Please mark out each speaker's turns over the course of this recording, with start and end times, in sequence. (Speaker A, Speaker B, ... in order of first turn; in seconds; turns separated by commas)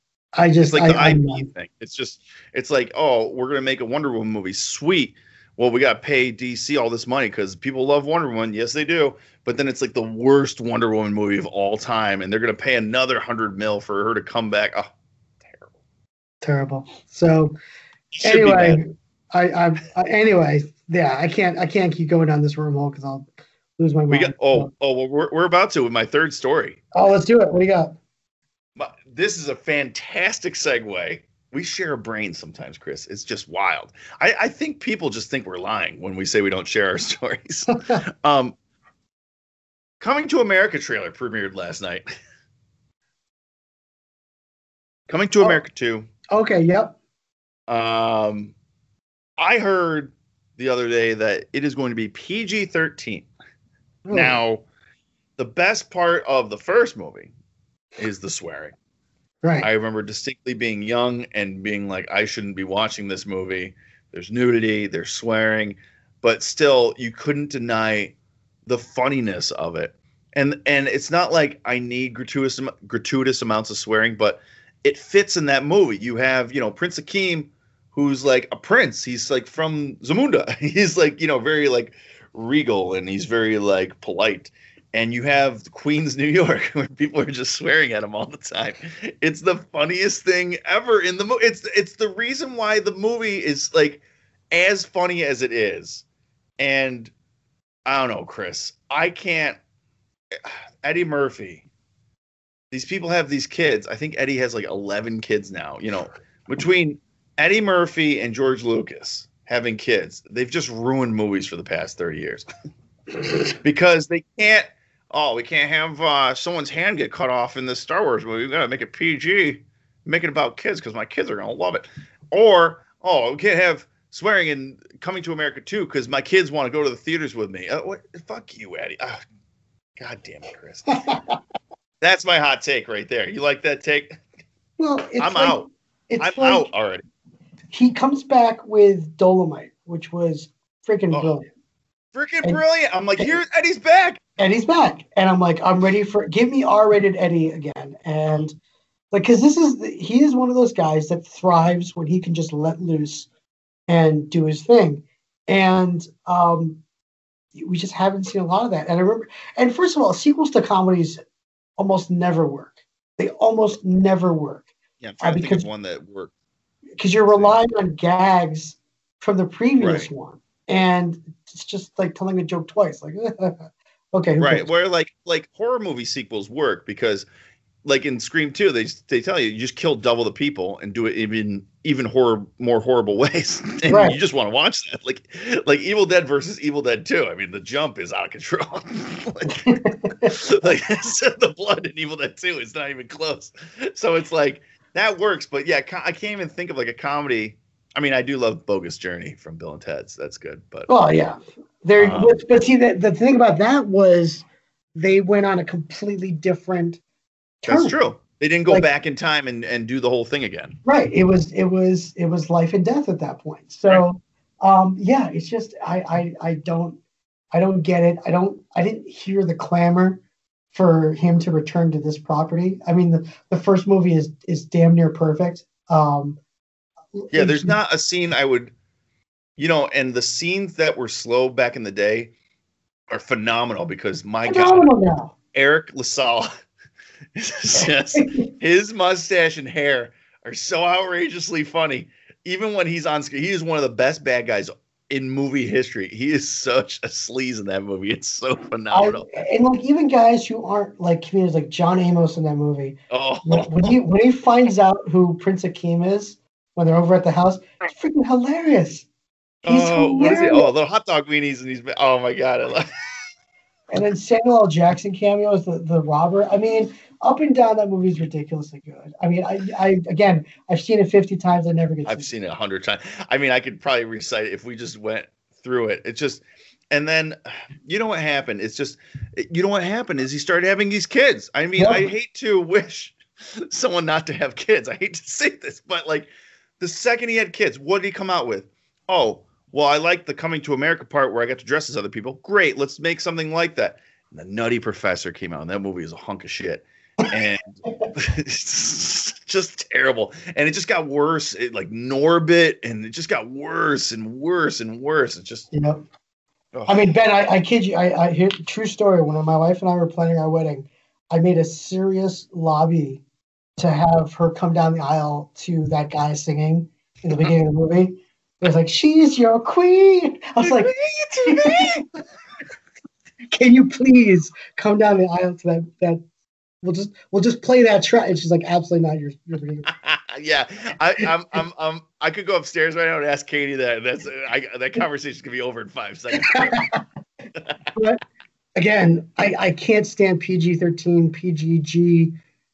Speaker A: 0.3-1.5, Speaker B: 0.6-14.9, Speaker B: 15.4-15.7, Speaker A: 16.4-17.6, Speaker B: 18.1-18.8, Speaker A: 18.2-24.7, Speaker B: 24.1-26.8, Speaker A: 26.9-28.0, Speaker B: 28.8-38.6, Speaker A: 37.7-38.0, Speaker B: 40.0-42.1, Speaker B: 45.1-46.1, Speaker A: 46.3-47.0, Speaker B: 47.7-48.5, Speaker B: 49.4-53.3, Speaker A: 54.0-54.4, Speaker B: 54.1-54.6, Speaker B: 55.4-57.3, Speaker B: 58.0-58.7, Speaker A: 59.4-59.7, Speaker B: 59.6-68.1, Speaker B: 68.7-96.0, Speaker B: 96.6-97.1, Speaker B: 97.9-99.6, Speaker B: 100.3-101.7, Speaker B: 102.7-112.5, Speaker B: 113.6-129.2, Speaker B: 130.0-131.0, Speaker A: 130.9-131.4, Speaker B: 132.0-134.2, Speaker A: 134.8-136.7, Speaker B: 135.2-135.7, Speaker B: 136.2-137.0, Speaker A: 137.7-141.5, Speaker B: 142.1-144.2, Speaker A: 144.4-148.6, Speaker A: 149.1-153.3, Speaker A: 153.9-156.8, Speaker A: 157.6-161.2, Speaker A: 161.8-164.7, Speaker B: 165.0-166.3, Speaker A: 165.2-165.7, Speaker A: 167.0-174.7, Speaker B: 167.3-167.6, Speaker B: 169.8-170.1, Speaker B: 174.4-177.3, Speaker B: 177.8-200.9, Speaker A: 183.9-184.2, Speaker A: 189.6-190.4, Speaker A: 200.9-204.4, Speaker B: 202.0-202.4, Speaker A: 204.9-207.0, Speaker A: 207.6-208.0, Speaker B: 207.6-210.8, Speaker A: 210.8-217.0, Speaker A: 217.5-220.2, Speaker A: 220.7-226.4, Speaker A: 227.2-227.8, Speaker B: 227.3-228.7, Speaker B: 229.6-232.3, Speaker B: 233.1-234.9, Speaker A: 234.5-235.3, Speaker B: 235.5-236.5, Speaker B: 237.4-249.4, Speaker A: 238.1-238.5, Speaker A: 248.9-259.1, Speaker B: 253.1-254.0, Speaker B: 259.6-262.9, Speaker A: 259.7-260.7, Speaker A: 263.9-272.3, Speaker B: 272.1-286.3, Speaker A: 281.8-282.1, Speaker B: 286.8-305.7, Speaker A: 305.7-306.0, Speaker B: 306.7-307.1, Speaker A: 306.9-313.2, Speaker A: 313.8-322.1, Speaker B: 320.6-322.0, Speaker A: 323.5-326.2, Speaker A: 326.8-329.9, Speaker B: 329.9-336.8, Speaker A: 336.4-337.0, Speaker A: 337.9-338.2, Speaker A: 338.8-342.3